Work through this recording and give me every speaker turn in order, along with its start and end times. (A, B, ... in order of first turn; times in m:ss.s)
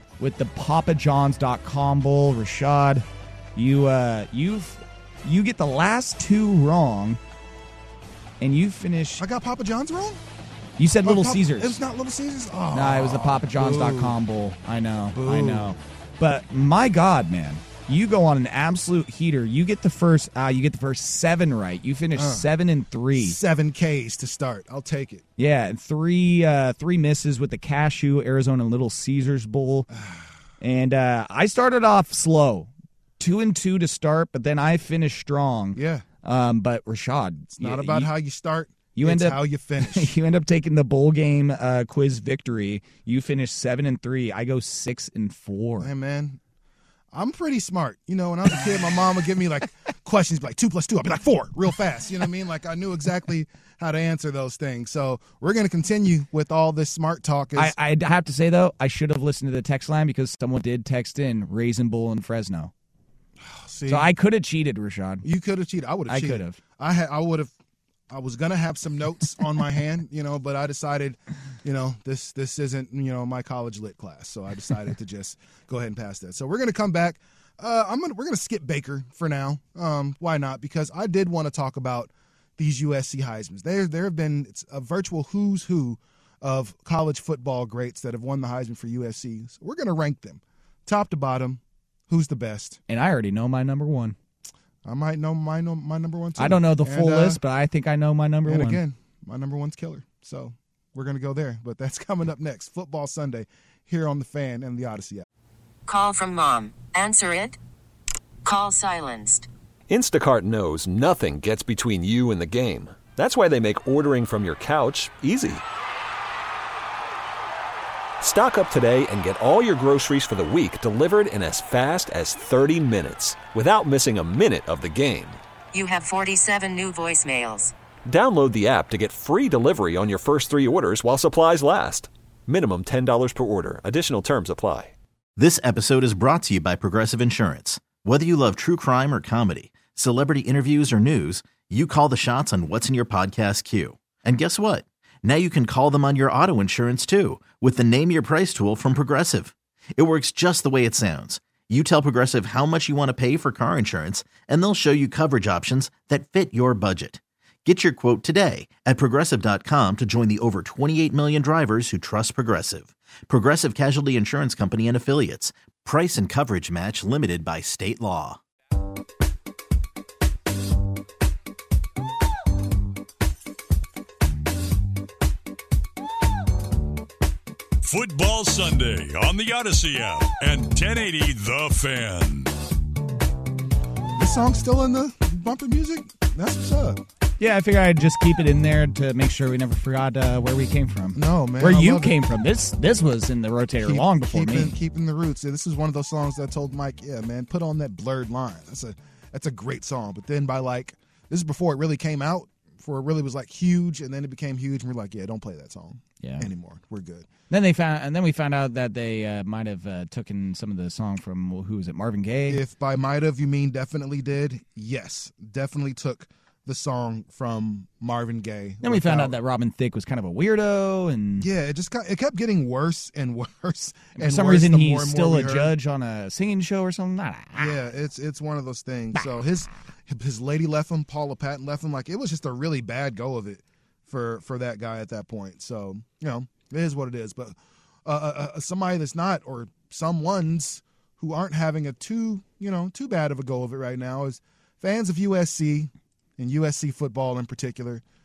0:00.2-0:07.2 A
0:08.4-0:09.2 A
0:09.2-0:10.2 B
0:10.8-0:11.8 A
0:11.0-0:14.2 B
0:12.7-0:23.4 A
0:15.1-0:15.7 B
0:22.1-0:22.5 B
0:23.1-0:25.2 B
0:25.4-0:29.9 A
0:29.9-0:30.3 B
0:30.6-0:38.1 A
0:35.7-0:36.0 B
0:37.5-0:40.1 B
0:39.0-0:45.9 A
0:45.8-0:46.4 B
0:47.1-0:57.7 B
0:57.6-1:02.7 A
1:03.4-1:04.1 B
1:03.9-1:05.2 A
1:05.2-1:07.5 B
1:06.1-1:06.6 A
1:08.1-1:32.8 B
1:32.9-1:34.2 A
1:34.8-1:37.4 B
1:36.4-1:38.8 A
1:38.4-1:45.2 B
1:45.9-1:47.6 C
1:48.4-1:49.5 C
1:49.9-1:55.6 D
1:58.2-2:05.4 D
2:05.7-2:07.7 C
2:08.0-2:14.9 D
2:15.4-2:48.4 E
2:57.8-3:02.5 F
3:04.1-3:07.0 B
3:07.4-3:14.7 A
3:11.1-3:12.2 B
3:13.8-3:27.3 B
3:26.2-3:26.5 A
3:27.5-3:32.6 A
3:32.5-3:39.3 B
3:38.8-3:41.5 A
3:41.4-3:45.7 B
3:44.2-3:47.8 A
3:47.5-4:08.0 B